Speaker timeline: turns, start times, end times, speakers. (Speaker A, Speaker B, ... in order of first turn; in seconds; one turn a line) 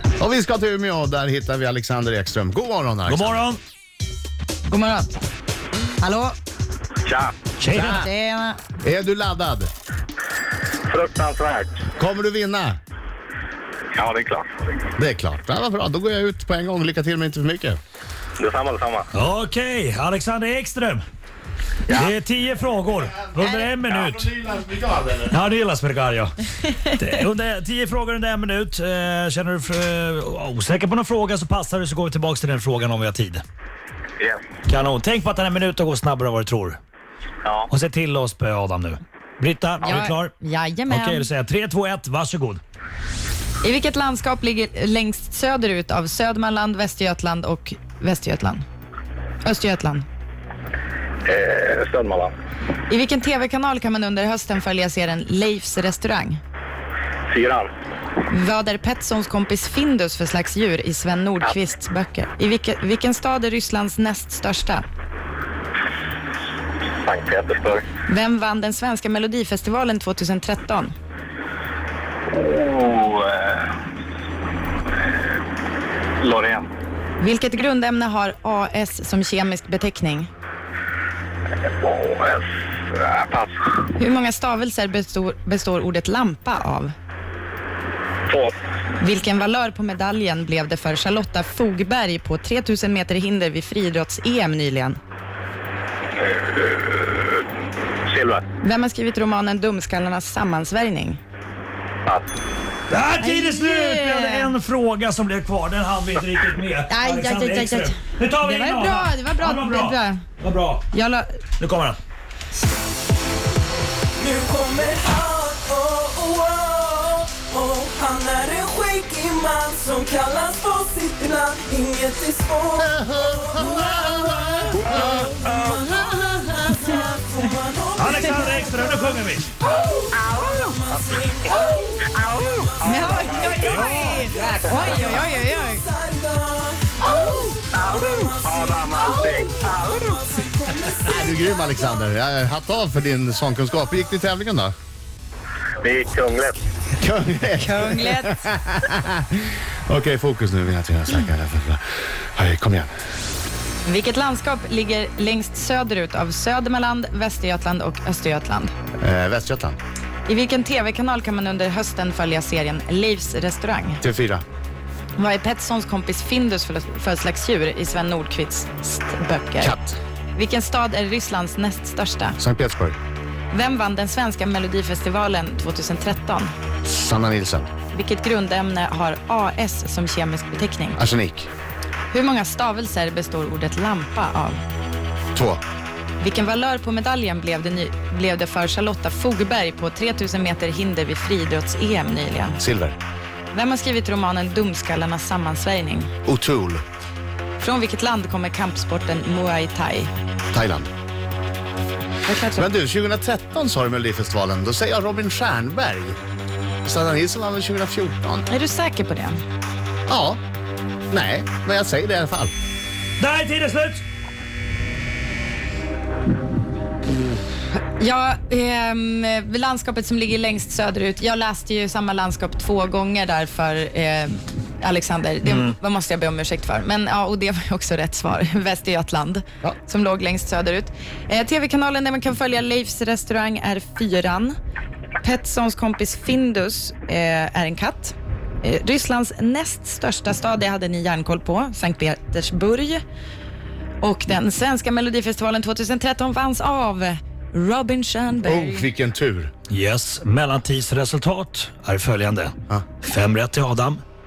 Speaker A: 0.2-3.4
Speaker B: 3.1-3.6
Speaker C: 4.7-5.2
Speaker C: 6.0-6.3
Speaker D: 7.0-7.3
Speaker B: 7.6-8.0
Speaker A: 7.7-8.1
Speaker C: 7.8-8.6
Speaker A: 8.8-9.7
Speaker D: 10.9-11.9
Speaker A: 12.0-12.8
Speaker D: 13.9-14.8
Speaker A: 15.0-17.8
Speaker D: 18.4-19.1
Speaker B: 19.1-21.0
Speaker D: 21.9-22.1
Speaker B: 21.9-24.3
Speaker A: 23.8-25.3
Speaker B: 25.3-33.4
Speaker B: 34.7-36.8
Speaker D: 37.4-37.7
Speaker B: 37.7-40.3
Speaker C: 39.8-41.3
Speaker B: 40.9-42.6
Speaker C: 43.6-48.6
Speaker C: 49.4-50.1
Speaker D: 51.2-52.4
Speaker C: 52.9-56.4
Speaker D: 57.3-57.7
Speaker C: 58.3-64.8
Speaker D: 67.0-67.9
Speaker C: 68.0-70.9
Speaker D: 72.3-73.7
Speaker D: 76.2-76.7
Speaker C: 77.2-80.3
Speaker D: 81.6-83.9
Speaker C: 84.0-86.9
Speaker D: 88.3-88.6
Speaker C: 89.0-95.0
Speaker D: 96.2-97.4
Speaker D: 98.1-98.4
Speaker C: 98.6-101.2
Speaker D: 102.1-102.3
Speaker B: 102.9-110.9
Speaker C: 103.2-104.5
Speaker C: 106.9-110.2
Speaker C: 110.9-111.4
Speaker B: 111.6-112.0
Speaker E: 114.2-142.1
Speaker A: 122.8-125.3
Speaker B: 128.0-129.5
Speaker C: 130.3-130.7
Speaker D: 132.1-133.8
Speaker C: 132.8-135.8
Speaker B: 133.7-134.1
Speaker A: 134.2-135.1
Speaker D: 134.4-134.8
Speaker D: 137.7-139.9
Speaker A: 141.0-144.7
Speaker D: 145.8-146.6
Speaker A: 147.0-152.9
Speaker C: 147.6-148.4
Speaker C: 153.8-158.7
Speaker A: 159.0-159.8
Speaker C: 160.3-164.0
Speaker A: 164.0-164.4
Speaker C: 165.2-169.8
Speaker A: 169.6-170.0
Speaker C: 170.3-172.4
Speaker A: 172.4-173.0
Speaker C: 173.5-176.5
Speaker A: 176.8-177.7
Speaker C: 177.9-181.0
Speaker A: 181.0-181.5
Speaker C: 182.1-184.6
Speaker A: 185.3-185.6
Speaker C: 186.2-192.6
Speaker A: 192.6-193.0
Speaker C: 193.5-196.1
Speaker A: 196.2-196.8
Speaker C: 197.6-200.1
Speaker A: 200.5-200.9
Speaker C: 202.3-202.7
Speaker A: 202.6-206.2
Speaker A: 206.8-208.5
Speaker C: 208.5-209.4
Speaker A: 210.1-210.4
Speaker A: 211.1-212.5
Speaker B: 213.2-214.0
Speaker C: 218.0-234.6
Speaker B: 225.4-225.8
Speaker C: 235.2-243.0
Speaker C: 244.0-248.9
Speaker A: 248.4-249.5
Speaker B: 249.7-254.0